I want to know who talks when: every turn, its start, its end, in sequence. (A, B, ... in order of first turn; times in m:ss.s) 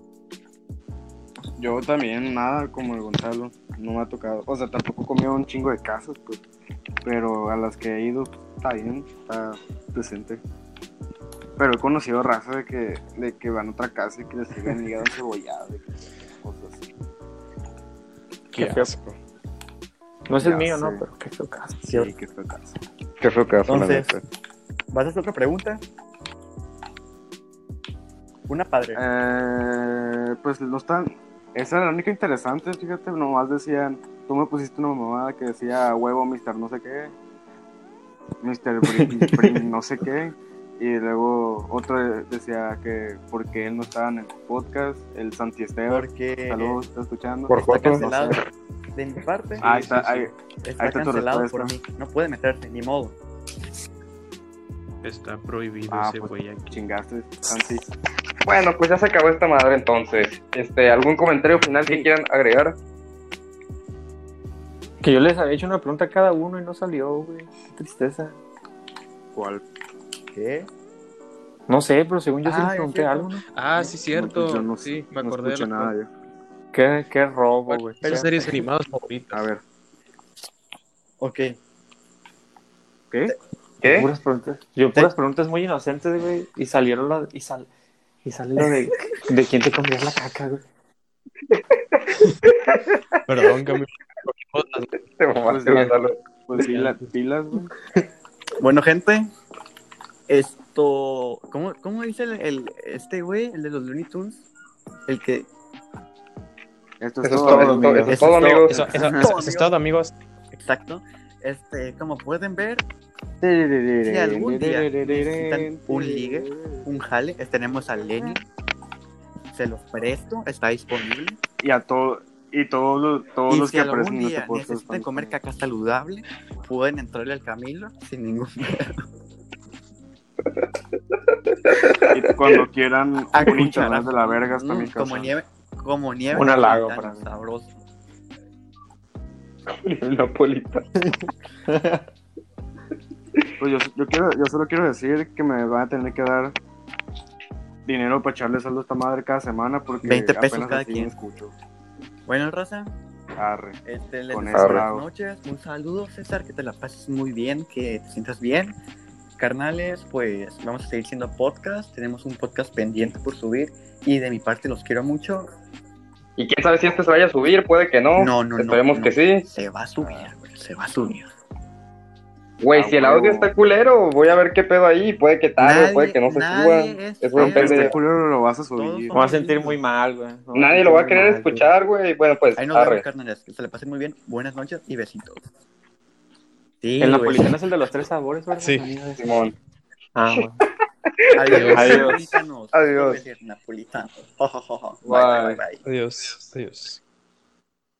0:01.6-0:06.4 A
0:07.0-0:10.4 A
0:11.6-0:16.8 A
0:18.5-0:19.2 B
0:18.5-0:18.9 C
0:20.3-0:21.8 C
0:20.4-0:21.0 A
0:21.8-0:22.8 A
0:23.2-0:24.2 D
0:23.7-0:24.2 E
0:24.9-0:25.8 E
0:28.5-0:29.0 E
0:28.9-0:37.1 A
0:38.4-0:48.4 A
0:38.8-0:39.6 C
0:45.9-0:46.8 E
0:47.5-0:48.0 D
0:47.6-0:48.4 E
0:48.9-0:53.2 E
0:49.6-0:50.0 B
0:49.6-0:51.7 A
0:55.0-0:56.8 B
0:55.9-0:57.9 A
0:58.4-1:02.7 D
1:05.0-1:08.4 C
1:09.3-1:09.6 A
1:10.3-1:10.7 E
1:11.7-1:13.4 C
1:12.4-1:13.3 E
1:13.5-1:15.9 B
1:13.8-1:16.1 A
1:16.7-1:18.3 C
1:17.7-1:19.5 B
1:18.0-1:18.6 E
1:19.3-1:19.6 A
1:21.2-1:21.5 E
1:23.8-1:24.1 D
1:23.8-1:27.7 C
1:28.2-1:30.6 C
1:31.5-1:33.0 D
1:33.3-1:34.9 B
1:35.0-1:36.2 D
1:35.5-1:37.7 A
1:36.6-1:37.0 B
1:38.6-1:39.3 E
1:40.3-1:44.4 E
1:45.1-1:45.5 E
1:47.0-1:47.9 A
1:47.2-1:48.9 D
1:47.3-1:48.7 C
1:48.0-1:49.7 E
1:48.7-1:50.1 B
1:50.5-1:52.8 E
1:53.4-1:56.9 A
1:54.0-1:58.4 E
1:59.5-2:01.4 E
2:01.6-2:05.3 A
2:03.5-2:09.0 E
2:11.5-2:12.6 D
2:12.1-2:15.3 A
2:13.3-2:17.8 E
2:16.3-2:17.2 C
2:19.7-2:20.9 D
2:21.7-2:22.0 C
2:23.6-2:26.6 A
2:27.8-2:31.5 A
2:30.0-2:31.1 E
2:32.2-2:33.0 E
2:33.4-2:33.8 A
2:33.8-2:38.8 E
2:34.3-2:35.0 A
2:34.5-2:34.8 D
2:39.4-2:45.5 E
2:46.4-2:49.4 D
2:48.2-2:51.3 E
2:50.0-2:50.3 A
2:52.6-2:57.9 D
2:52.8-2:53.4 A
2:52.8-2:53.2 E
2:55.6-2:58.0 E
2:57.4-2:59.1 A
2:58.7-2:59.8 E
2:59.1-3:01.7 C
3:00.5-3:03.0 D
3:02.6-3:05.4 E
3:06.8-3:07.5 E
3:07.0-3:09.4 C
3:08.6-3:08.9 B
3:09.2-3:09.5 D
3:10.1-3:10.6 C
3:11.2-3:12.1 D
3:11.3-3:15.8 E
3:11.5-3:11.9 B
3:11.7-3:12.2 C
3:12.7-3:13.2 D
3:15.0-3:15.6 D
3:15.8-3:17.0 B